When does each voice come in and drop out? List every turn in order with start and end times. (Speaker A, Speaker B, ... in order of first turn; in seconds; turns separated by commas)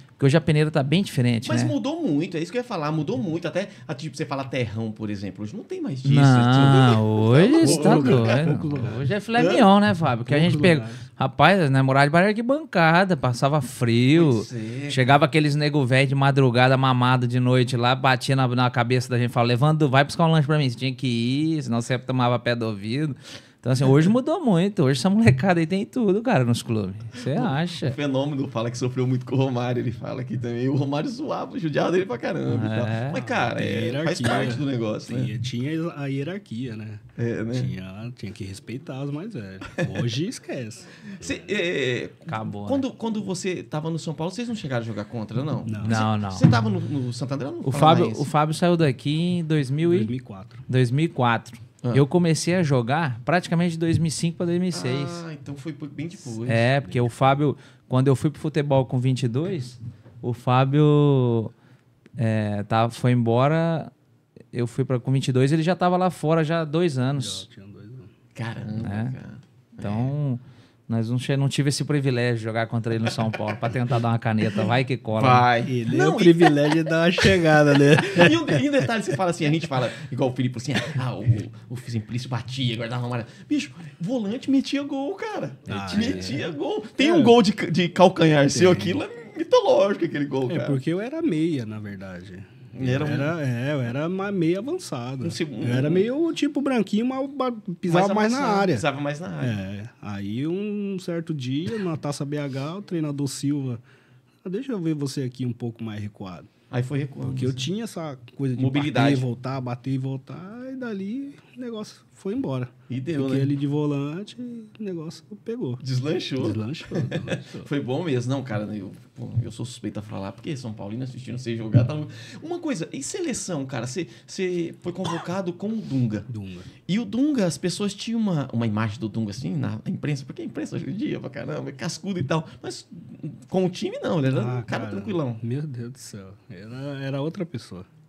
Speaker A: 0.2-1.7, Speaker B: 1.4-9.6, Speaker A: 6.0-28.0, Speaker C: 7.5-9.0, Speaker C: 10.3-11.0, Speaker B: 14.1-15.1, Speaker B: 27.2-35.3, Speaker A: 32.5-33.5, Speaker C: 33.5-41.4, Speaker B: 37.2-37.7, Speaker B: 41.1-48.3, Speaker A: 42.3-42.8, Speaker C: 45.6-46.0, Speaker A: 45.8-46.5, Speaker A: 47.6-50.1, Speaker C: 49.8-50.6, Speaker A: 50.7-55.2, Speaker B: 54.7-56.7, Speaker A: 56.3-61.5, Speaker C: 56.8-57.4, Speaker A: 62.2-63.9, Speaker A: 64.5-67.5, Speaker C: 67.2-68.1, Speaker B: 68.3-70.1, Speaker A: 68.8-69.2, Speaker A: 69.8-75.5, Speaker B: 75.2-76.8, Speaker C: 75.7-78.6, Speaker B: 77.9-90.8, Speaker C: 85.7-87.3, Speaker C: 88.5-89.0, Speaker C: 90.5-98.8, Speaker B: 92.7-93.3, Speaker B: 95.2-96.1, Speaker B: 97.9-99.6, Speaker C: 99.4-103.8, Speaker C: 104.4-106.5, Speaker B: 106.7-107.7, Speaker C: 107.2-115.8, Speaker B: 108.5-109.2, Speaker B: 112.9-113.5, Speaker B: 115.8-126.3, Speaker C: 116.4-117.7, Speaker C: 126.3-126.7, Speaker B: 126.9-135.4, Speaker C: 134.3-137.9